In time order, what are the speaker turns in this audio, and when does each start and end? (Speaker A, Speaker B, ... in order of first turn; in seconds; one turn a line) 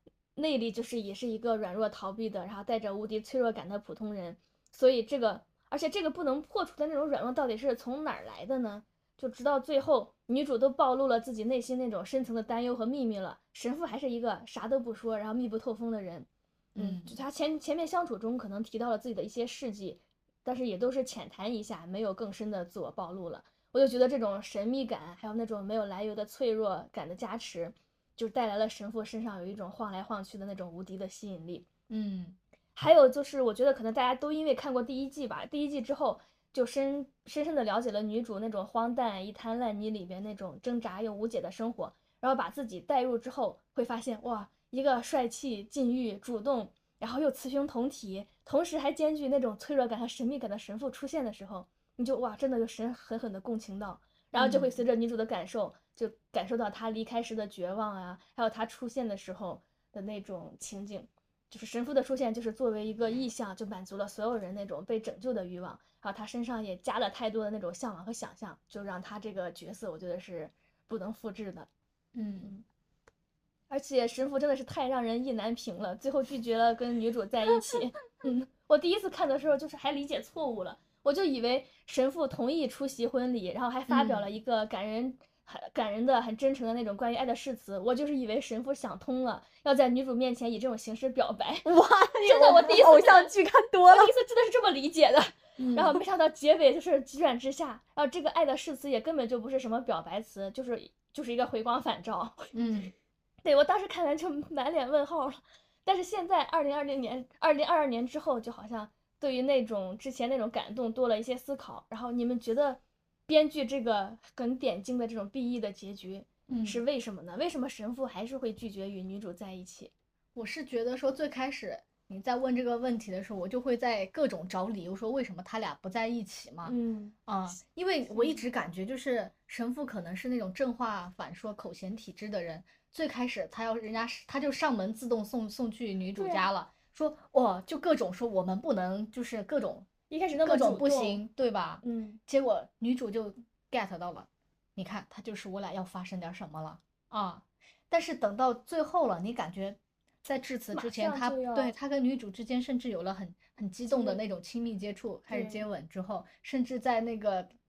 Speaker A: 0.3-31.6
Speaker B: 16.7-17.1
Speaker B: 31.9-32.4
Speaker A: 32.8-71.7
Speaker B: 54.3-54.7
Speaker B: 72.1-72.6
Speaker A: 73.7-91.7
Speaker B: 83.9-84.2
Speaker C: 91.6-94.1
Speaker A: 92.2-93.3
Speaker A: 93.9-102.5
Speaker B: 95.6-96.0
Speaker B: 102.5-102.9
Speaker A: 103.4-119.9
Speaker B: 116.5-116.8
Speaker B: 120.3-126.7
Speaker A: 126.7-127.1
Speaker B: 127.3-139.9
Speaker A: 128.1-128.4
Speaker A: 136.2-136.4
Speaker A: 140.1-141.2
Speaker B: 140.4-157.5
Speaker A: 141.8-142.2
Speaker A: 150.7-151.7
Speaker A: 153.9-154.2
Speaker A: 155.3-155.6